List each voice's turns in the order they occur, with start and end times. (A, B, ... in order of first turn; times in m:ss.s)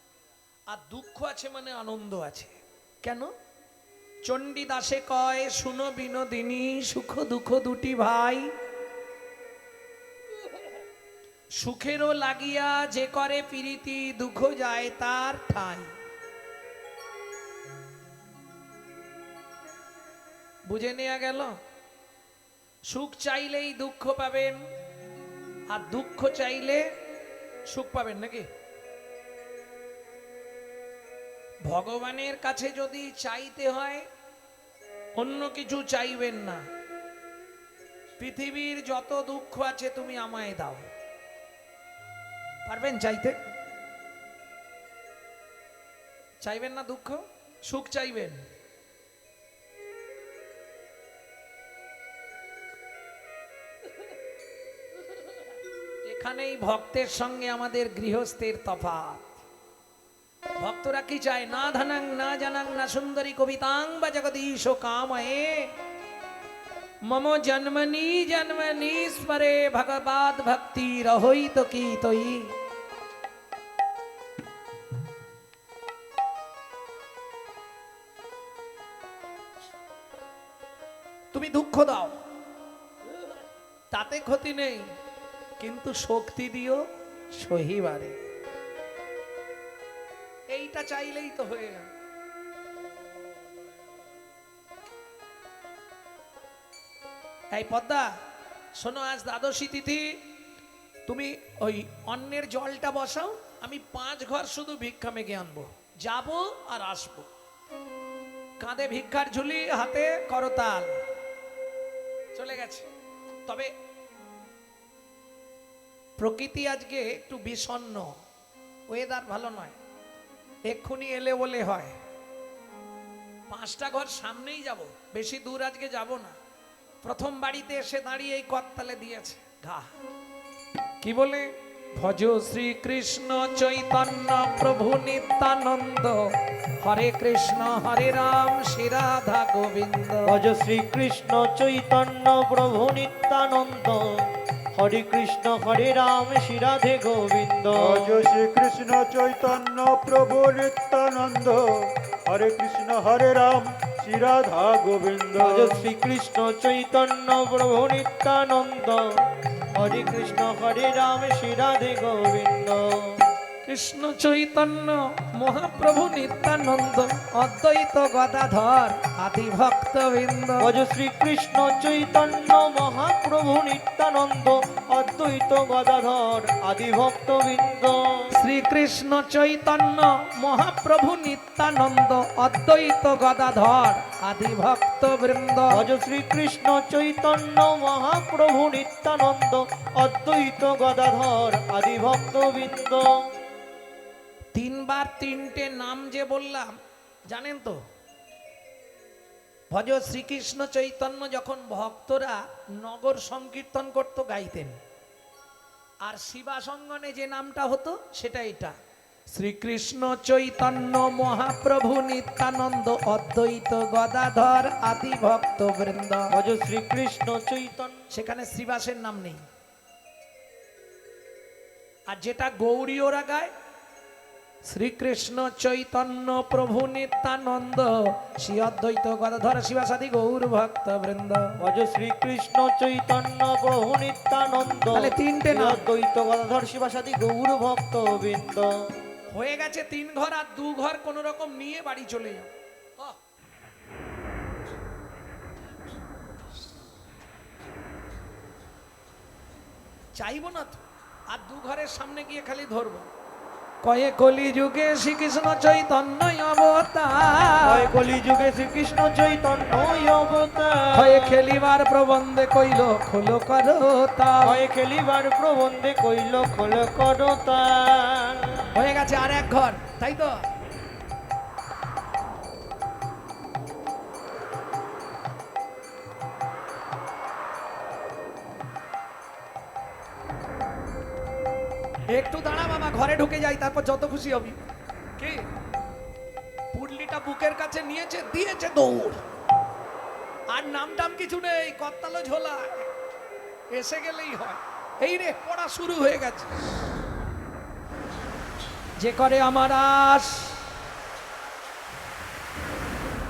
0:00.7-0:03.3 A
0:04.2-0:08.5 A
0:11.5-0:15.9 A
0:20.6-0:21.6 A
0:22.9-0:24.6 A
0:25.7-0:26.9 A
0:27.6-0:28.5 A
0:31.6-0:34.1 A
0:35.2-0:36.6 A
0:38.2-0:40.9 A
0:42.6-0:43.4 A
0:46.4-0:48.4 A
0:56.0-0:59.4 A
1:00.6-1:05.8 A
1:07.0-1:12.5 A
1:21.3-1:22.2 A
1:23.9-1:24.9 A
1:25.6-1:28.2 A
1:30.5-1:31.9 A
1:37.5-1:38.1 A
1:38.7-1:40.3 A
1:41.0-1:47.3 A
1:48.6-1:50.9 A
1:52.3-1:52.9 A
1:53.4-1:53.7 A
1:56.2-1:58.2 A
1:58.9-1:59.8 A
2:00.6-2:02.0 A
2:03.5-2:06.4 A
2:07.0-2:09.9 A
2:11.0-2:20.4 A
2:20.2-2:28.2 B
2:27.7-2:35.8 C
2:35.4-2:43.3 B
2:43.6-2:50.7 A
2:50.6-2:58.3 B
2:58.3-3:05.8 A
3:05.7-3:13.1 B
3:14.5-3:16.8 A
3:17.3-3:17.8 A
3:19.7-3:24.8 A
3:26.0-3:28.8 A
3:29.3-3:36.3 A
3:36.3-3:38.0 B
3:38.1-3:39.4 A
3:42.1-3:43.5 A
3:44.6-3:51.6 A
3:51.6-3:58.7 B
3:54.9-3:55.8 A
3:59.3-4:03.2 A
4:10.1-4:13.1 A
4:13.8-4:17.9 A
4:17.6-4:21.4 B
4:20.9-4:24.6 A
4:24.4-4:28.8 B
4:28.7-4:30.4 A
4:42.1-4:44.6 A
4:45.2-4:45.5 A
4:46.7-4:49.2 A
4:50.5-4:52.9 A
4:53.7-4:56.5 A
4:59.0-5:00.7 A